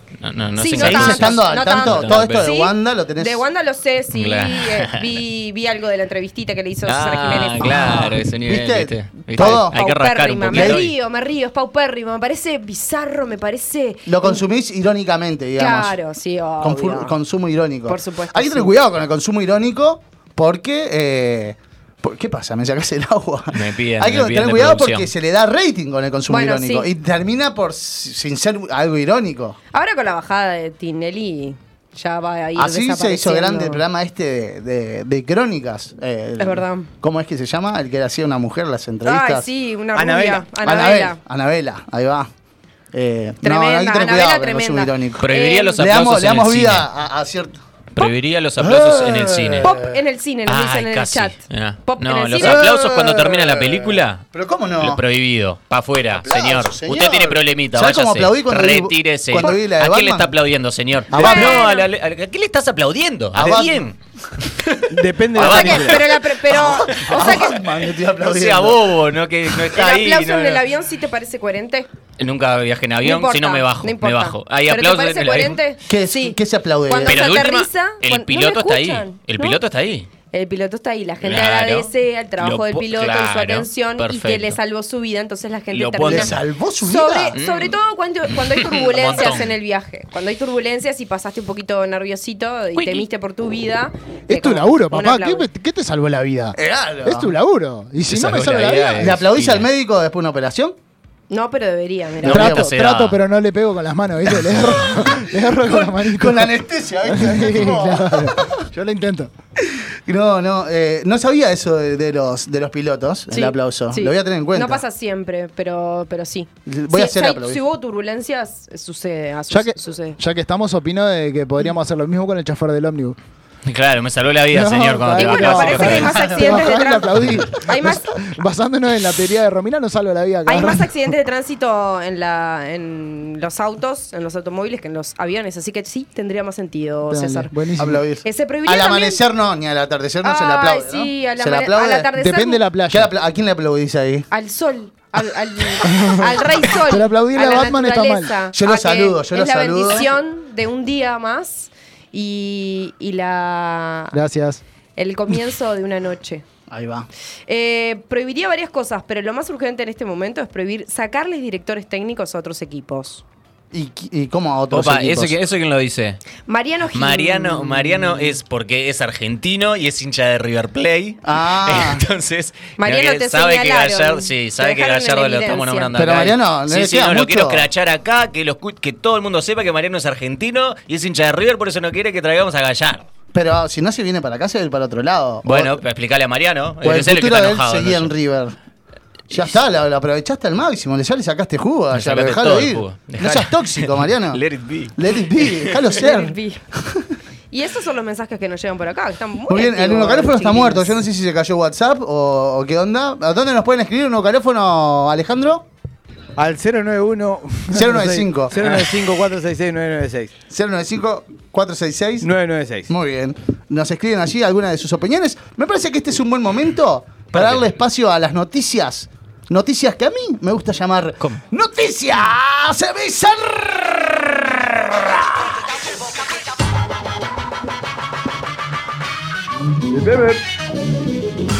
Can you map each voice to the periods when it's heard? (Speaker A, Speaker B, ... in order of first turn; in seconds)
Speaker A: 0.2-2.5, 4.1-5.0, 6.8-10.9, 23.5-25.1, 45.2-46.9, 48.0-49.7, 50.5-54.3, 54.8-64.0, 64.6-66.2, 66.9-67.5, 68.2-70.6, 72.2-75.6, 77.0-80.1, 81.2-84.6, 85.7-86.4, 87.3-87.8, 88.3-89.5, 98.1-99.7, 102.4-103.2, 123.7-126.2, 164.7-166.2, 166.9-183.1, 185.4-188.1, 191.9-195.9, 217.3-217.7
Speaker B: 0.6-8.1, 9.4-14.4, 15.6-17.1, 17.9-18.7, 26.3-26.9, 29.7-33.8, 36.4-36.9, 39.0-41.2, 43.4-45.9, 49.6-52.7, 61.1-61.9, 65.4-67.6, 69.8-71.9, 73.0-79.6, 80.3-95.5, 101.3-102.5, 113.3-120.2, 125.2-128.1, 130.5-137.5, 138.2-139.2, 140.2-142.6, 144.3-154.2, 155.0-156.4, 157.5-163.2, 166.5-168.2, 172.8-175.9, 196.0-196.6, 197.5-200.9
Speaker C: 0.8-3.4, 7.7-9.8, 10.5-10.9, 14.1-16.0, 16.6-29.6, 32.6-39.5, 40.6-42.3, 42.9-47.6, 48.6-49.9, 52.4-55.0, 56.2-60.3, 61.1-61.7, 63.4-63.8, 66.5-68.8, 75.9-77.5, 86.1-87.3, 96.5-97.3, 98.1-100.8, 102.2-102.7, 104.5-108.5, 110.1-114.8, 116.7-117.6, 125.9-126.8, 137.8-142.1, 142.9-144.3, 148.5-150.1, 156.7-157.1, 163.7-165.4, 171.2-172.0, 176.0-177.7, 183.3-185.8, 186.8-188.6, 189.3-194.4, 195.0-197.1, 199.5-205.7, 207.7-208.8, 210.5-212.3, 212.9-225.6
Speaker D: 40.0-40.5, 64.9-66.0, 206.4-210.3, 212.2-212.9
Speaker E: 94.3-99.2, 102.2-106.5, 107.0-109.3, 119.5-123.2, 124.5-130.9, 137.1-138.0, 142.2-143.1, 145.9-148.4, 154.1-154.6